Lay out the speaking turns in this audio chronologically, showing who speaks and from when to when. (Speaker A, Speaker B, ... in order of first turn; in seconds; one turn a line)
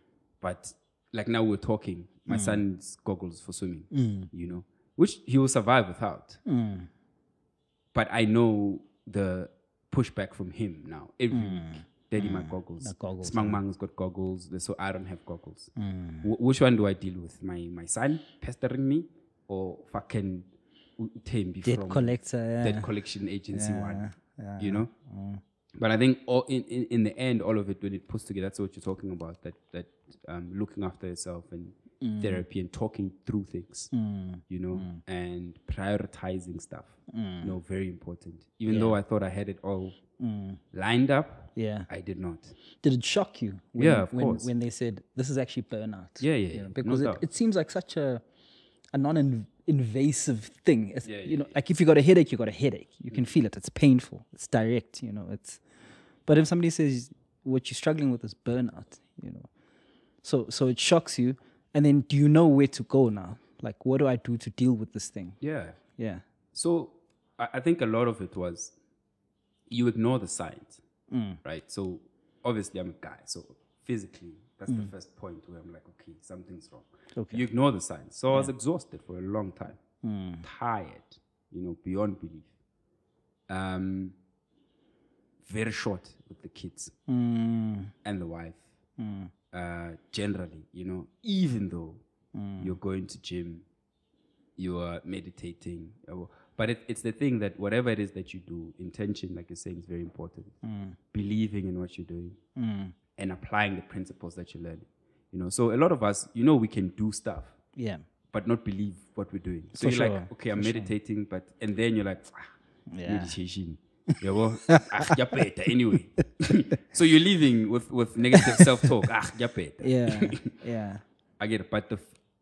Speaker A: 0.4-6.4
Speaker B: 2.3-2.6
Speaker B: 3.9-4.3
Speaker B: 6.4-6.9
Speaker A: 7.9-15.7
Speaker B: 11.3-13.6
Speaker B: 15.8-16.3
Speaker A: 16.2-24.9
Speaker B: 21.6-22.9
Speaker B: 23.5-25.4
Speaker A: 25.8-33.9
Speaker B: 32.0-32.4
Speaker B: 33.9-35.0
Speaker A: 34.5-40.0
Speaker B: 37.1-37.6
Speaker B: 38.7-39.0
Speaker B: 40.2-40.6
Speaker A: 40.7-42.6
Speaker B: 41.5-41.9
Speaker B: 42.8-48.2
Speaker A: 43.8-44.5
Speaker A: 46.2-47.2
Speaker B: 48.9-55.6
Speaker A: 51.0-51.6
Speaker B: 56.3-59.5
Speaker B: 60.2-65.4
Speaker A: 65.4-65.8
Speaker B: 66.0-66.2
Speaker A: 66.5-68.7
Speaker A: 69.7-70.8
Speaker B: 71.1-71.4
Speaker A: 71.4-79.8
Speaker B: 77.1-77.4
Speaker B: 80.0-80.4
Speaker A: 80.4-82.5
Speaker A: 83.5-84.1
Speaker A: 85.4-86.9
Speaker B: 87.1-87.9
Speaker A: 88.0-88.7
Speaker B: 89.0-89.3
Speaker A: 89.5-92.0
Speaker B: 92.3-92.8
Speaker A: 92.6-93.6
Speaker A: 94.6-100.5
Speaker B: 100.6-101.0
Speaker A: 101.1-102.4
Speaker B: 102.6-102.9
Speaker A: 103.2-107.5
Speaker B: 107.8-108.0
Speaker A: 108.3-112.5
Speaker B: 109.8-110.9
Speaker B: 112.9-113.3
Speaker A: 113.0-120.5
Speaker B: 114.7-115.2
Speaker B: 118.3-118.6
Speaker B: 119.8-121.0
Speaker A: 121.4-122.1